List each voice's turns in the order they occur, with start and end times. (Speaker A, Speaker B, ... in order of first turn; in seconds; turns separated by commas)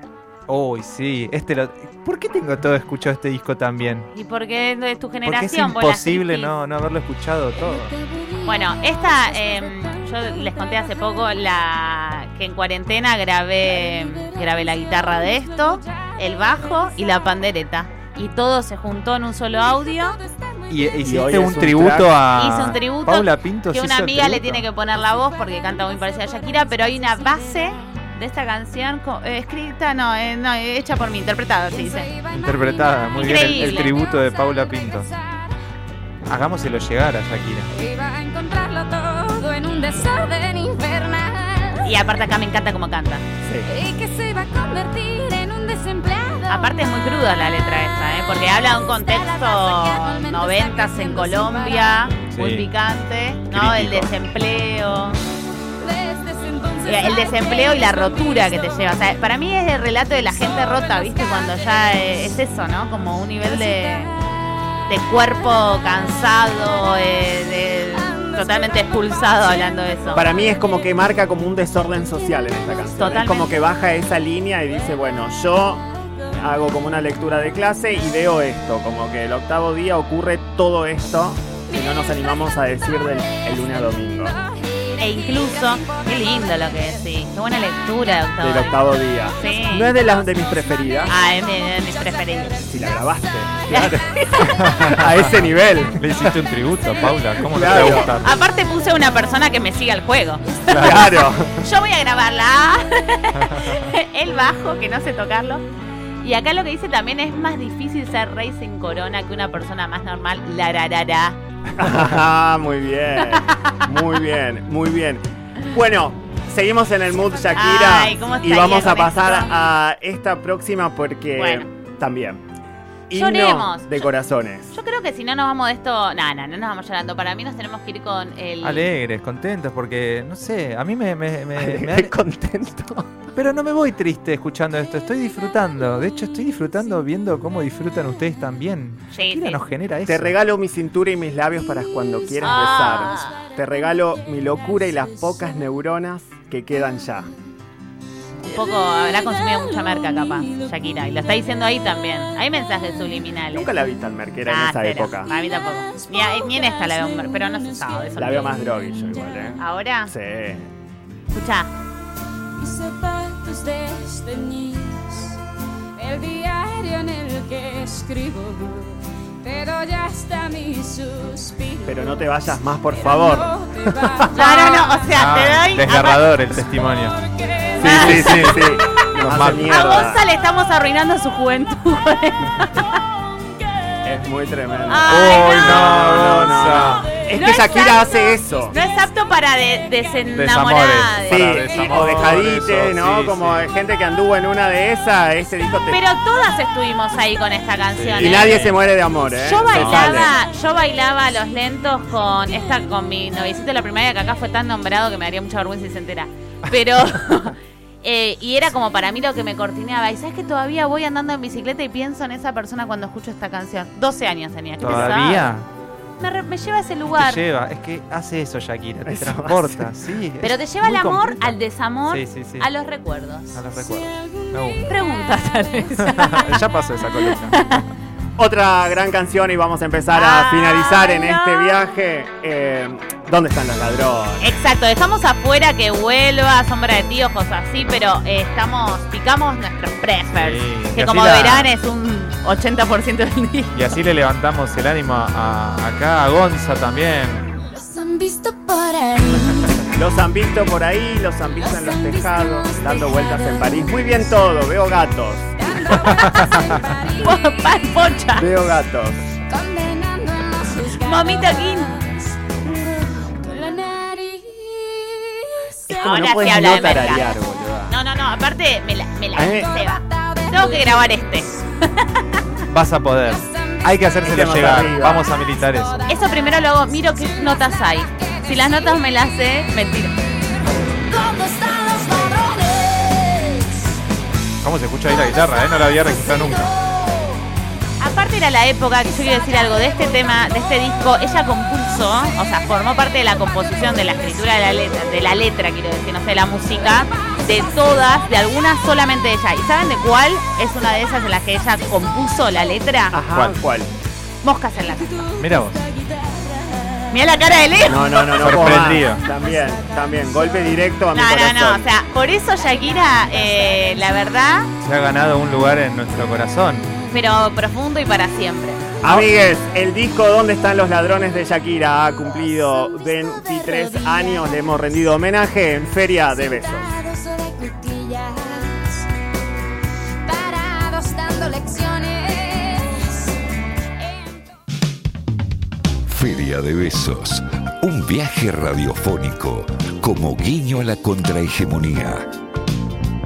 Speaker A: 0.5-4.1, Speaker B: 4.1-6.5, Speaker A: 5.2-7.9, Speaker C: 7.6-11.0, Speaker B: 8.4-20.2, Speaker C: 15.2-15.5, Speaker C: 20.1-20.7, Speaker A: 20.7-24.6, Speaker D: 21.0-22.1, Speaker B: 22.3-32.1, Speaker C: 31.7-35.5, Speaker A: 32.3-35.1, Speaker B: 33.1-33.9, Speaker A: 36.2-37.7, Speaker C: 37.7-42.0, Speaker B: 41.8-43.2, Speaker D: 43.4-43.7, Speaker C: 43.6-47.0, Speaker B: 46.5-55.2, Speaker C: 48.8-52.2, Speaker A: 52.3-52.7, Speaker A: 53.5-54.1, Speaker C: 55.8-59.0, Speaker B: 56.9-64.1, Speaker C: 60.6-61.5, Speaker C: 63.5-64.3, Speaker B: 64.9-70.2, Speaker C: 68.0-69.0, Speaker D: 70.1-84.3, Speaker B: 73.0-73.6, Speaker C: 84.3-86.5, Speaker B: 85.0-89.9, Speaker D: 88.4-91.1, Speaker B: 91.1-92.6, Speaker D: 92.6-96.3, Speaker B: 93.7-95.0, Speaker A: 94.5-98.4, Speaker D: 97.4-98.1, Speaker B: 97.6-105.6, Speaker A: 100.7-101.0, Speaker D: 100.8-101.6, Speaker A: 103.3-103.8, Speaker B: 106.2-111.4, Speaker D: 111.7-122.4, Speaker B: 113.2-113.8, Speaker B: 117.5-119.5, Speaker B: 121.4-121.7, Speaker D: 123.1-124.8, Speaker B: 123.1-124.0, Speaker B: 124.7-128.8, Speaker A: 128.6-132.1, Speaker D: 131.5-133.1, Speaker A: 133.3-140.3, Speaker B: 139.1-139.6, Speaker D: 140.0-147.3, Speaker B: 142.4-143.4, Speaker B: 148.5-153.7, Speaker D: 153.5-155.3, Speaker B: 154.4-158.5, Speaker C: 155.9-156.9, Speaker D: 158.2-160.7, Speaker B: 159.6-160.1, Speaker B: 161.3-161.7, Speaker C: 162.6-165.4, Speaker C: 165.9-172.2, Speaker D: 171.8-174.4, Speaker C: 172.9-175.1, Speaker B: 174.3-176.6, Speaker A: 175.1-177.2, Speaker C: 177.3-177.8, Speaker B: 177.8-183.0, Speaker D: 177.8-180.2, Speaker A: 177.8-179.7, Speaker D: 184.0-188.8, Speaker B: 184.9-186.5, Speaker A: 185.1-187.1, Speaker B: 187.1-191.6, Speaker A: 190.3-193.7, Speaker D: 191.2-196.0, Speaker B: 195.9-198.8, Speaker A: 197.9-198.7, Speaker D: 198.1-200.3, Speaker B: 199.4-215.5, Speaker A: 199.7-200.3, Speaker A: 214.8-215.7, Speaker D: 214.8-215.2, Speaker B: 216.2-217.4, Speaker A: 217.1-221.5, Speaker D: 219.0-219.9, Speaker B: 220.4-223.6, Speaker A: 222.1-222.7, Speaker A: 223.5-224.9, Speaker B: 224.7-226.7, Speaker A: 226.0-227.8, Speaker B: 227.2-227.8, Speaker D: 228.4-234.5, Speaker B: 230.1-231.8, Speaker B: 234.4-243.8, Speaker A: 240.3-241.7, Speaker A: 243.7-247.5, Speaker C: 247.6-250.0, Speaker D: 249.9-256.0, Speaker C: 251.6-254.2, Speaker C: 255.6-257.6, Speaker B: 256.0-256.4, Speaker A: 256.1-256.4, Speaker B: 257.2-258.5, Speaker D: 258.4-259.2, Speaker C: 259.5-266.2, Speaker B: 260.8-262.0, Speaker D: 265.9-268.0, Speaker B: 266.0-267.2, Speaker B: 267.9-272.4, Speaker D: 269.3-269.7, Speaker C: 269.5-271.5, Speaker A: 272.7-276.0, Speaker C: 273.2-279.0, Speaker D: 274.2-275.3, Speaker B: 276.1-280.1, Speaker C: 280.7-283.8, Speaker A: 284.6-286.7, Speaker C: 285.1-287.4, Speaker B: 288.0-303.2, Speaker D: 303.1-303.9, Speaker A: 303.3-303.6, Speaker B: 304.4-305.3, Speaker C: 305.2-307.1, Speaker A: 305.4-305.8, Speaker B: 307.1-308.7, Speaker D: 307.9-311.9, Speaker A: 308.4-309.2, Speaker C: 309.0-310.6, Speaker B: 311.1-314.7, Speaker C: 312.8-314.0, Speaker A: 314.8-316.9, Speaker B: 317.1-319.0, Speaker D: 319.0-326.9, Speaker A: 319.0-319.3, Speaker C: 322.9-324.6, Speaker C: 326.4-329.1, Speaker C: 330.2-333.4, Speaker C: 334.0-334.5, Speaker E: 336.1-342.3